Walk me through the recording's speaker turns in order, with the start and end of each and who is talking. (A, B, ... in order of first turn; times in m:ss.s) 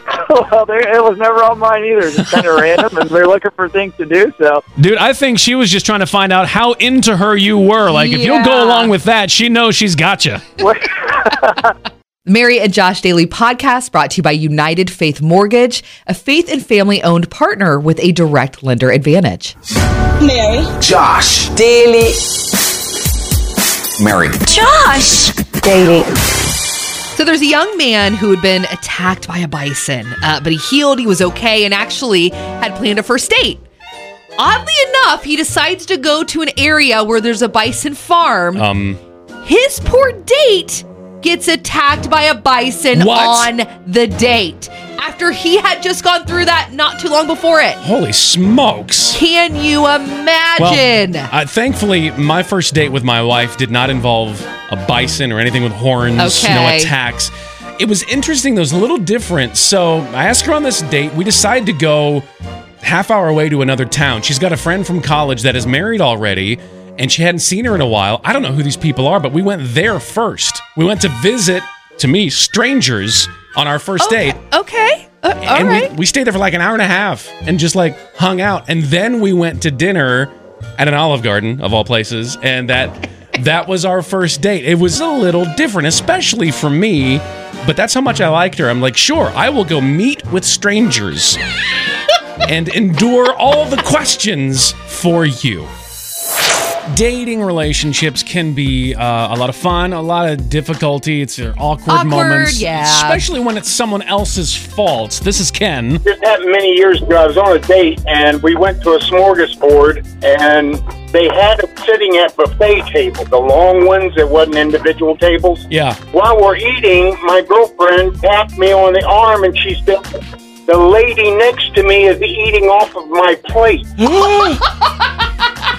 0:00.1-0:04.6 A
0:04.8-0:10.5 B
0:07.9-0:08.9 C
0:10.7-0:11.5 A
0:12.3-0:19.5 C
0:20.2-0:20.7 D
0:20.9-0:22.1 B
0:24.4-0:26.1 D
0:27.1-0:33.6 C
0:34.4-0:38.6 C
0:38.6-0:39.0 B
0:39.4-0:47.8 C
0:42.9-0:43.5 B
0:47.8-0:49.2 B
0:49.1-0:51.3 C
0:50.6-1:02.3 B
0:56.2-0:56.9 C
1:02.8-1:14.4 B
1:14.0-1:15.9 C
1:15.4-1:31.4 B
1:32.5-1:35.7 B
1:36.9-1:46.0 B
1:41.9-1:43.2 C
1:46.0-2:00.1 E
1:55.7-1:56.0 B
2:00.7-2:03.9 E
2:04.0-2:04.7 B